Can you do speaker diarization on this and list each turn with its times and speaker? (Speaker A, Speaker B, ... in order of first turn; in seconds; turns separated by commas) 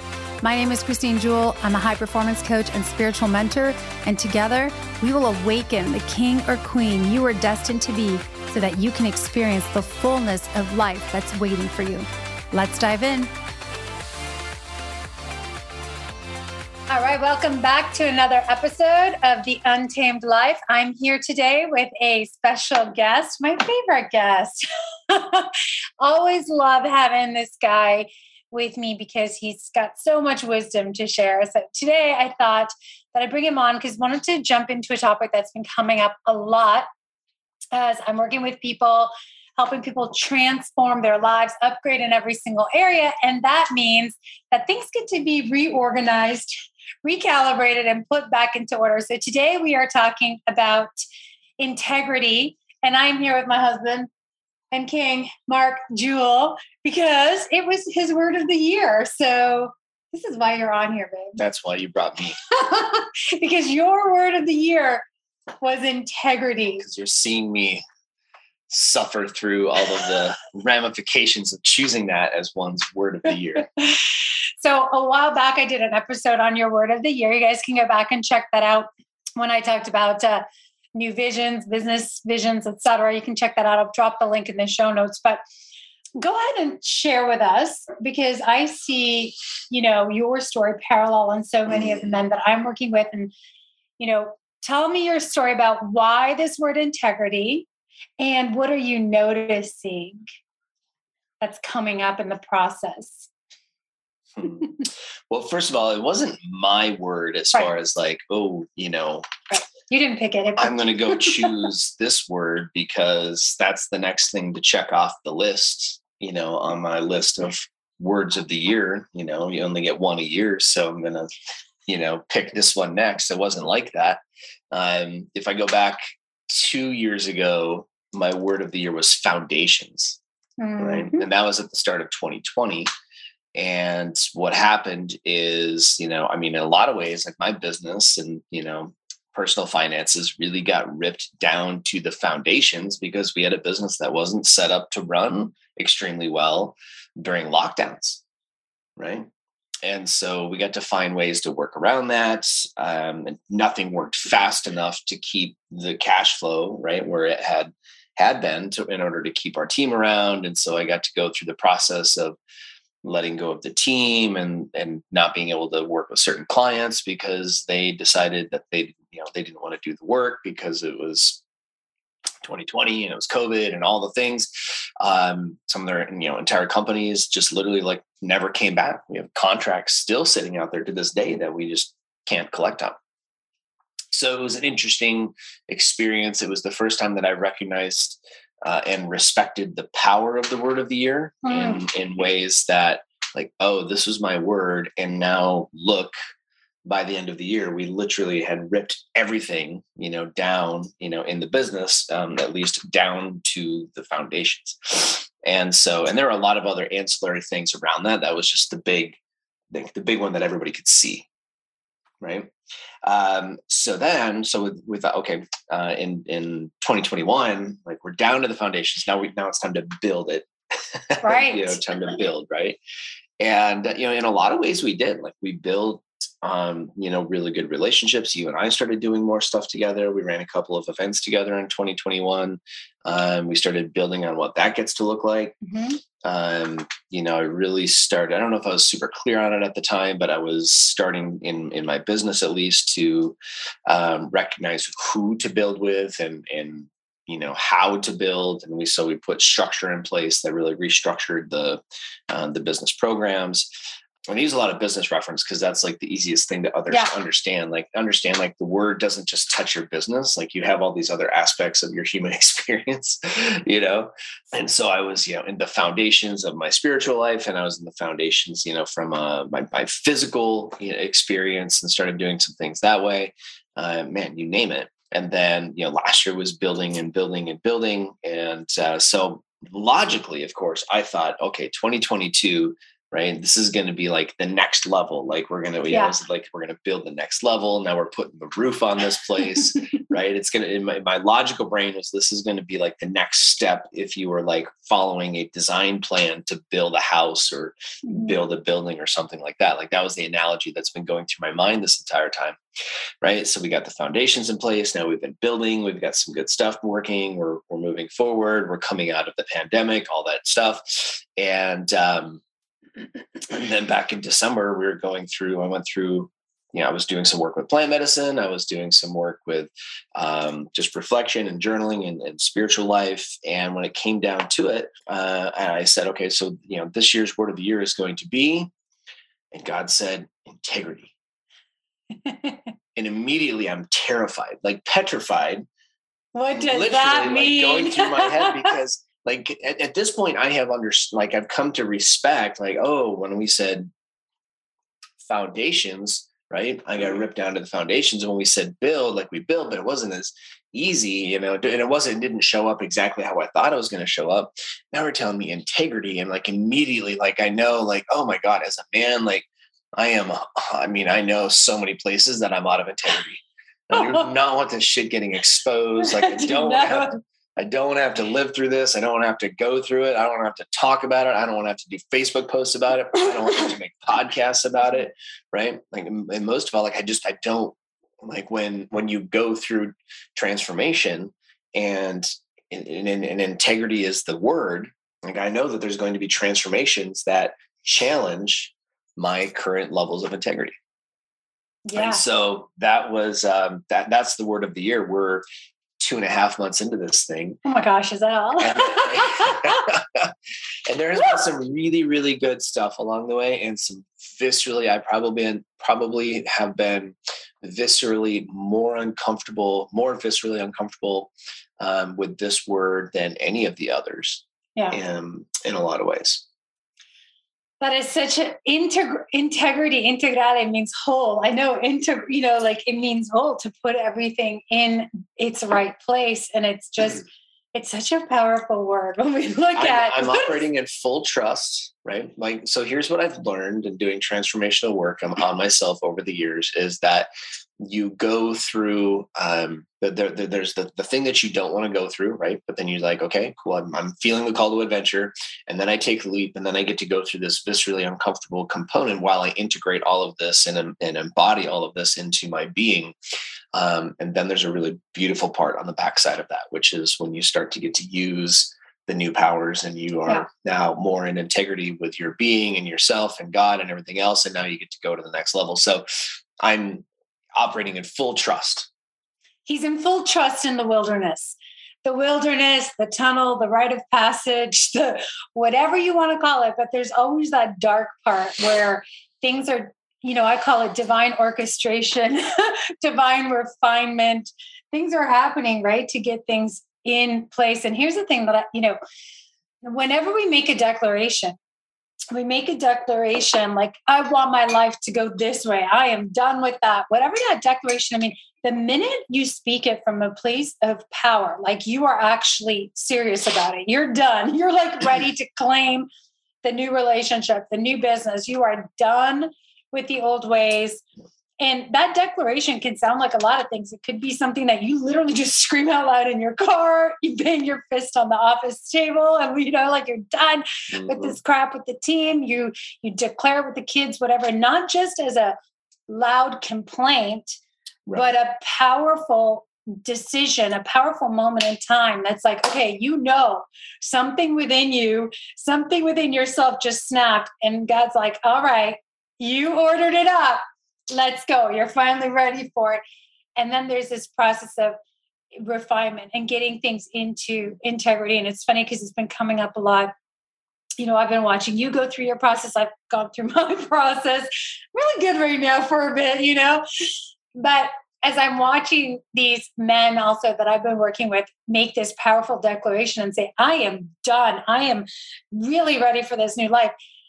Speaker A: 0.4-13.3, Speaker A: 16.9-36.9, Speaker A: 37.7-46.5, Speaker A: 47.0-50.9, Speaker A: 51.6-54.1, Speaker A: 54.7-61.4, Speaker B: 61.4-62.4, Speaker A: 62.5-65.0, Speaker A: 65.6-66.8, Speaker B: 66.8-67.8, Speaker B: 68.7-73.7, Speaker A: 73.7-85.4, Speaker A: 86.2-93.3, Speaker A: 94.0-97.7, Speaker A: 98.2-100.2, Speaker A: 101.4-103.3, Speaker B: 104.4-109.3, Speaker A: 109.5-111.7, Speaker B: 110.6-121.3, Speaker B: 121.9-130.2, Speaker A: 130.6-131.3, Speaker B: 130.8-132.9, Speaker B: 133.6-148.2, Speaker B: 149.0-149.3, Speaker B: 149.8-162.4, Speaker B: 163.0-171.4, Speaker B: 172.4-183.0, Speaker B: 184.1-196.1, Speaker A: 191.4-191.8, Speaker B: 196.9-209.2, Speaker B: 209.7-211.3, Speaker B: 212.2-212.5, Speaker B: 213.1-222.8, Speaker A: 221.2-221.8, Speaker B: 223.4-235.6, Speaker A: 235.6-236.0, Speaker B: 236.2-253.7, Speaker B: 254.3-302.6, Speaker A: 285.9-286.1, Speaker A: 298.1-298.3, Speaker B: 303.2-312.4, Speaker B: 313.4-328.7, Speaker B: 329.5-331.1, Speaker A: 332.2-332.7, Speaker B: 333.0-335.6, Speaker A: 336.3-338.7, Speaker B: 336.6-343.9, Speaker B: 345.2-359.5, Speaker B: 360.0-390.8, Speaker A: 363.9-364.3, Speaker A: 366.0-367.1, Speaker A: 391.9-392.2, Speaker B: 391.9-395.4, Speaker B: 396.0-397.6, Speaker A: 397.6-399.8, Speaker B: 398.6-400.3, Speaker B: 400.9-416.4, Speaker A: 417.8-430.6, Speaker B: 429.8-437.3, Speaker B: 437.8-453.1, Speaker B: 453.7-466.1, Speaker B: 466.6-467.1, Speaker B: 467.6-468.9, Speaker A: 469.7-489.0, Speaker A: 489.8-491.6, Speaker A: 492.3-506.1, Speaker A: 506.6-511.0, Speaker A: 511.6-525.6, Speaker B: 520.9-521.4, Speaker A: 526.1-527.6, Speaker A: 528.1-543.0, Speaker A: 543.6-545.0, Speaker A: 545.5-550.1, Speaker A: 551.0-556.9, Speaker A: 557.5-566.9